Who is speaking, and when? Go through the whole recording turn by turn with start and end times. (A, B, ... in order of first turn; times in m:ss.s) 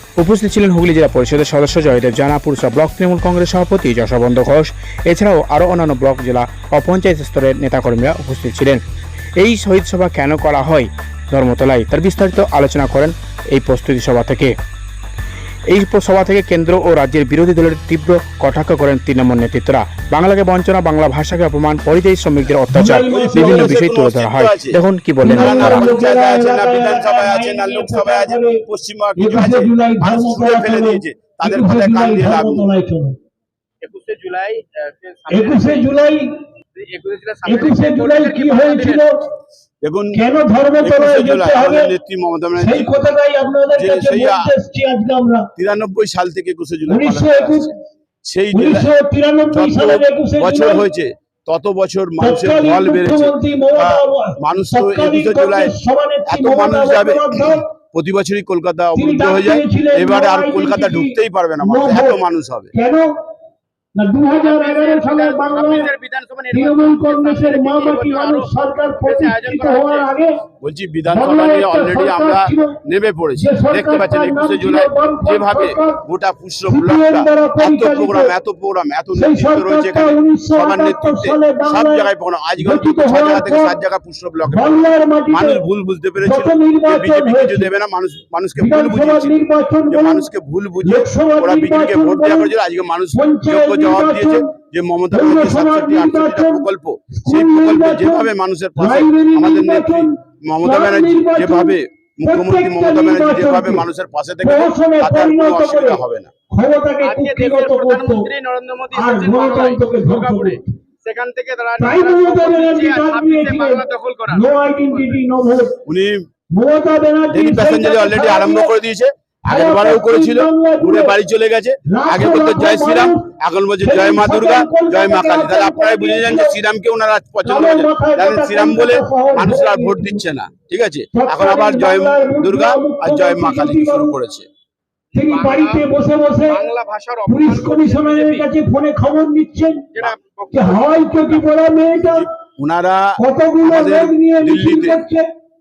0:00.2-0:08.8 A
0:09.4-0:14.5 A
0:15.7-0:25.9 A
0:22.7-0:23.8 B
0:23.1-0:32.7 C
0:25.2-0:28.6 B
0:29.2-0:33.1 B
0:33.8-0:36.0 D
0:35.3-0:36.3 B
0:36.8-0:39.0 D
0:37.4-0:39.2 B
0:39.8-0:40.2 C
0:40.1-0:41.9 B
0:40.8-0:42.9 C
0:42.6-0:45.5 B
0:43.8-0:44.4 C
0:45.6-0:47.7 C
0:46.9-0:47.7 B
0:48.2-0:48.9 C
0:48.5-0:50.8 B
0:49.5-0:55.7 C
0:52.2-0:57.7 B
0:56.3-1:02.7 C
0:58.9-1:02.2 B
1:02.7-1:03.1 B
1:04.0-1:05.9 B
1:04.3-1:08.5 D
1:06.5-1:10.4 B
1:09.0-1:10.1 D
1:10.6-1:46.3 C
1:11.1-1:12.8 B
1:13.4-1:16.0 B
1:16.7-1:18.3 B
1:19.1-1:23.7 B
1:24.5-1:25.6 B
1:26.2-1:27.7 B
1:28.6-1:30.2 B
1:30.8-1:32.5 B
1:33.1-1:34.4 B
1:35.1-1:36.6 B
1:37.2-1:43.8 B
1:44.4-1:48.3 B
1:47.0-1:55.2 D
1:48.9-1:50.6 B
1:51.8-1:55.7 B
1:55.8-1:56.2 C
1:56.5-1:58.8 B
1:57.3-2:14.5 C
1:59.5-2:01.2 B
2:01.9-2:03.3 B
2:03.8-2:06.6 B
2:07.4-2:10.2 B
2:11.1-2:14.2 B
2:15.1-2:15.9 D
2:15.1-2:16.6 B
2:16.4-2:18.5 D
2:17.2-2:19.9 B
2:19.9-2:21.4 D
2:20.5-2:22.3 B
2:22.0-2:25.0 C
2:23.2-2:25.3 B